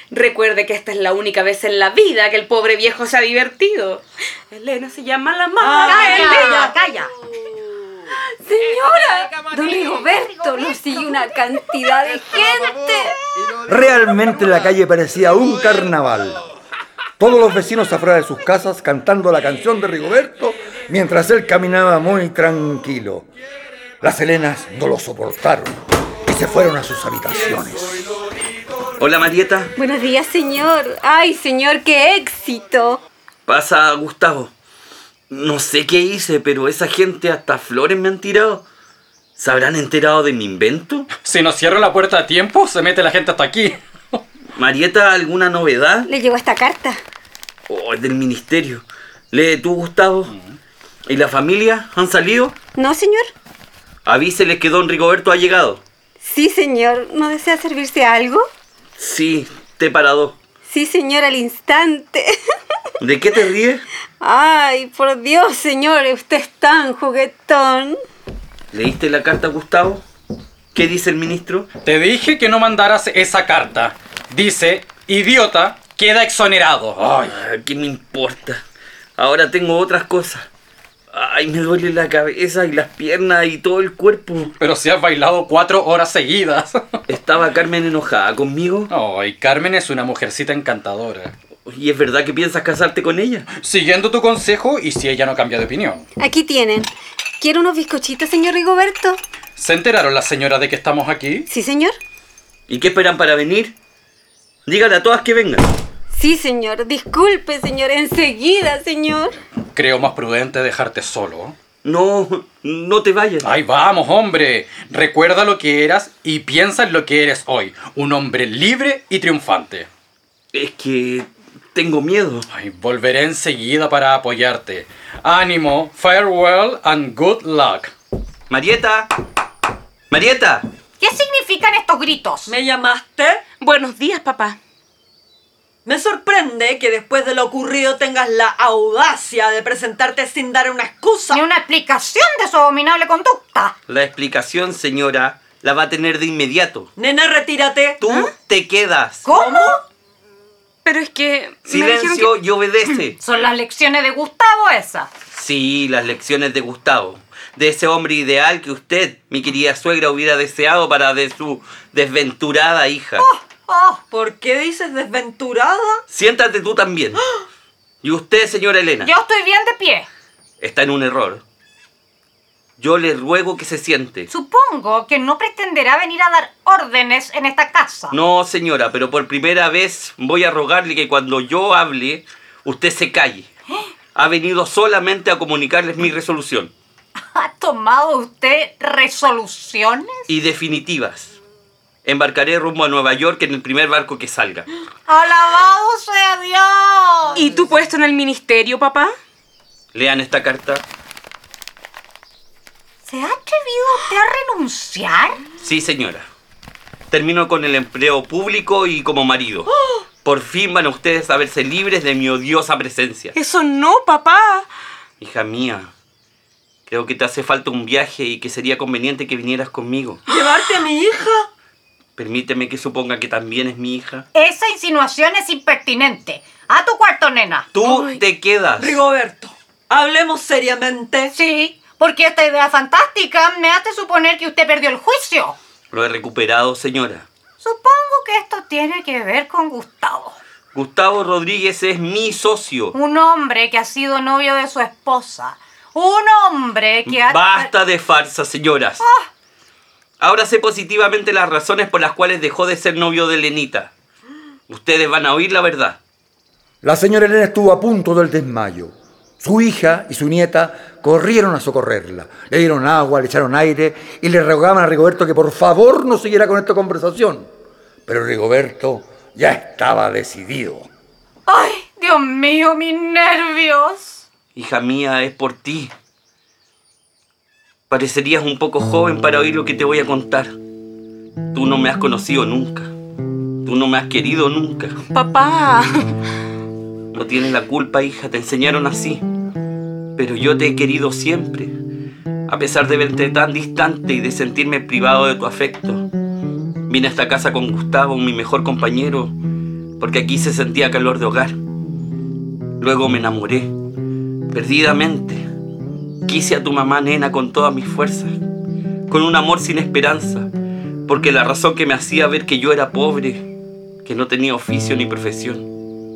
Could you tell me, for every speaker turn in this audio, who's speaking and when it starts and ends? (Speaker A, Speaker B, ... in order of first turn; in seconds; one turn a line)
Speaker A: 0.1-6.7
Speaker B: 5.6-6.7
Speaker C: 5.8-7.1
Speaker D: 8.3-13.2
Speaker E: 13.7-16.4
Speaker E: 17.2-23.3
Speaker E: 24.0-28.2
Speaker F: 29.0-29.7
Speaker D: 29.8-33.0
Speaker F: 33.5-34.5
Speaker F: 35.3-38.6
Speaker F: 39.4-41.1
Speaker G: 41.1-44.2
Speaker F: 44.6-46.1
Speaker D: 46.1-47.0
Speaker F: 47.7-50.3
Speaker F: 51.1-52.5
Speaker D: 52.8-53.3
Speaker F: 54.1-55.8
Speaker D: 56.2-58.5
Speaker F: 59.0-60.4
Speaker D: 60.7-62.3
Speaker F: 63.0-63.8
Speaker D: 64.2-68.0
Speaker F: 68.7-70.0
Speaker F: 70.7-71.7
Speaker G: 71.8-77.2
Speaker F: 77.0-78.6
Speaker F: 79.2-80.5
Speaker F: 81.1-84.5
Speaker G: 84.6-87.0
Speaker F: 87.1-88.9
Speaker G: 88.9-91.3
Speaker F: 91.7-93.5
Speaker G: 93.5-96.1
Speaker D: 96.2-96.9
Speaker D: 97.4-99.2
Speaker G: 99.6-101.5
Speaker D: 101.5-101.9
Speaker F: 102.7-103.8
Speaker F: 104.7-105.7
Speaker D: 106.1-109.4
Speaker G: 109.7-111.6
Speaker F: 111.8-113.5
Speaker G: 113.4-119.9
Speaker F: 120.5-122.5
Speaker G: 122.5-127.9
Speaker F: 128.5-129.1
Speaker F: 130.1-130.7
Speaker C: 131.0-132.6
Speaker B: 132.5-133.4
Speaker A: 133.6-134.6
Speaker B: 135.9-141.4
Speaker C: 141.3-143.8
Speaker F: 143.9-146.9
Speaker B: 147.0-148.0
Speaker F: 148.0-149.3
Speaker C: 149.2-149.8
Speaker B: 149.3-149.8
Speaker A: 150.8-152.3
Speaker F: 151.7-153.2
Speaker C: 153.1-155.1
Speaker F: 155.3-163.2
Speaker C: 163.2-164.0
Speaker B: 164.1-166.0
Speaker F: 166.1-167.2
Speaker F: 168.0-169.1
Speaker C: 169.0-170.1
Speaker F: 170.6-171.4
Speaker F: 172.8-174.3
Speaker C: 174.3-178.2
Speaker F: 178.1-183.5
Speaker F: 184.2-186.7
Speaker C: 187.2-190.3
Speaker F: 190.3-191.4
Speaker F: 192.1-194.7
Speaker C: 195.1-197.6
Speaker A: 197.3-199.1
Speaker F: 199.9-200.8
Speaker C: 203.1-205.4
Speaker F: 205.6-206.3
Speaker F: 207.1-209.7
Speaker F: 210.2-213.3
Speaker A: 213.3-214.7
Speaker F: 215.2-215.9
Speaker F: 216.9-220.2
Speaker B: 220.3-221.5
Speaker F: 222.2-224.3
Speaker C: 224.3-227.7
Speaker F: 227.7-229.0
Speaker A: 227.8-228.2
Speaker B: 228.8-231.3
Speaker C: 231.3-235.6
Speaker F: 235.9-237.3
Speaker C: 237.6-240.4
Speaker F: 240.7-242.9
Speaker C: 242.9-247.7
Speaker F: 247.1-249.0
Speaker C: 249.0-249.3
Speaker F: 250.2-253.9
Speaker F: 254.7-256.0
Speaker E: 256.8-267.5
Speaker E: 268.1-270.9
Speaker C: 271.5-274.2
Speaker F: 274.6-275.9
Speaker F: 277.9-280.5
Speaker F: 281.5-282.9
Speaker F: 283.6-285.0
Speaker A: 285.1-286.1
Speaker F: 287.1-289.2
Speaker F: 290.2-291.8
Speaker F: 292.5-296.1
Speaker F: 296.9-299.3
Speaker F: 300.0-301.6
Speaker F: 302.8-303.7
Speaker F: 304.5-305.4
Speaker F: 306.3-308.4
Speaker F: 309.1-310.5
Speaker F: 311.1-313.5
Speaker F: 314.0-315.7